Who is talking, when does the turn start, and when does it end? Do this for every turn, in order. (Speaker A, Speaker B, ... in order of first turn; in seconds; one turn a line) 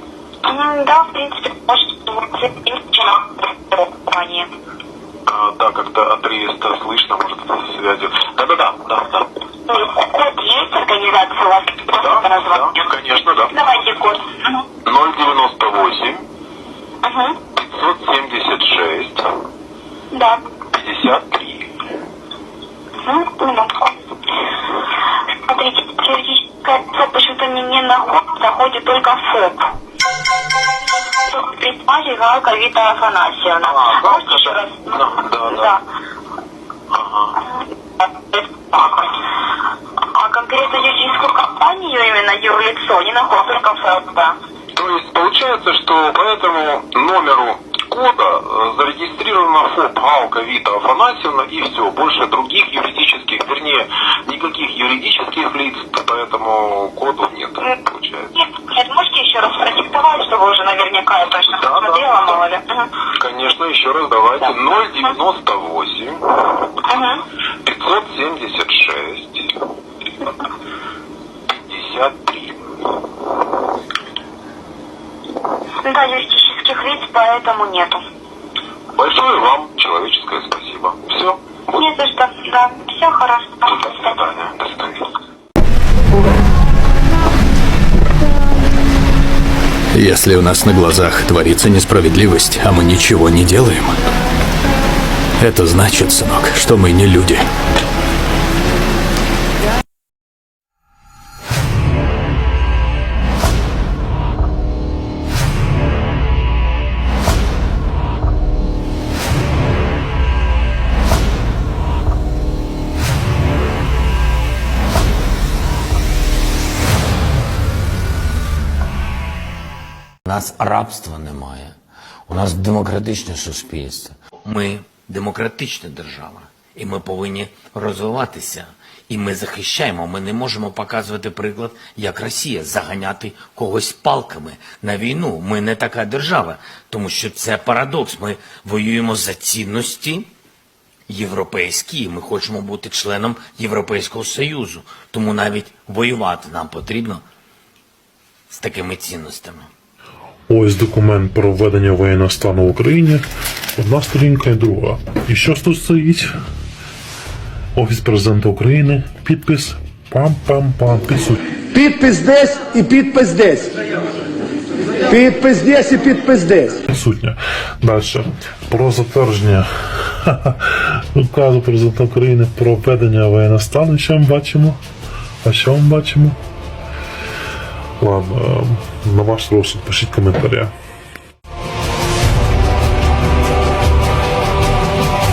Speaker A: 0.4-4.5
Speaker B: 5.3-9.3
Speaker A: 9.7-12.8
Speaker B: 12.0-13.6
Speaker A: 13.5-14.6
Speaker B: 14.8-16.2
Speaker A: 17.0-17.4
Speaker B: 17.5-19.3
Speaker A: 20.1-20.4
Speaker B: 20.7-21.7
Speaker A: 23.0-23.9
Speaker A: 25.5-29.7
Speaker A: 31.2-35.8
Speaker B: 33.6-35.8
Speaker B: 36.9-37.3
Speaker A: 38.3-39.1
Speaker A: 40.1-44.4
Speaker B: 44.7-58.3
Speaker A: 58.3-62.9
Speaker B: 61.5-62.5
Speaker B: 63.1-66.2
Speaker A: 64.5-65.2
Speaker A: 66.9-67.2
Speaker B: 67.6-69.5
Speaker B: 71.5-72.6
Speaker A: 75.8-78.0
Speaker B: 78.9-81.4
Speaker A: 81.7-84.2
Speaker B: 83.6-85.0
Speaker C: 89.9-94.0
Speaker C: 95.4-97.5
Speaker D: 120.2-121.8
Speaker D: 122.3-140.3
Speaker D: 141.1-147.2
Speaker D: 148.5-149.7
Speaker E: 150.5-153.2
Speaker E: 153.8-156.3
Speaker E: 157.7-161.5
Speaker F: 161.7-163.7
Speaker F: 165.1-166.8
Speaker E: 166.9-169.6
Speaker E: 171.1-174.8
Speaker E: 175.4-176.4
Speaker E: 178.0-180.7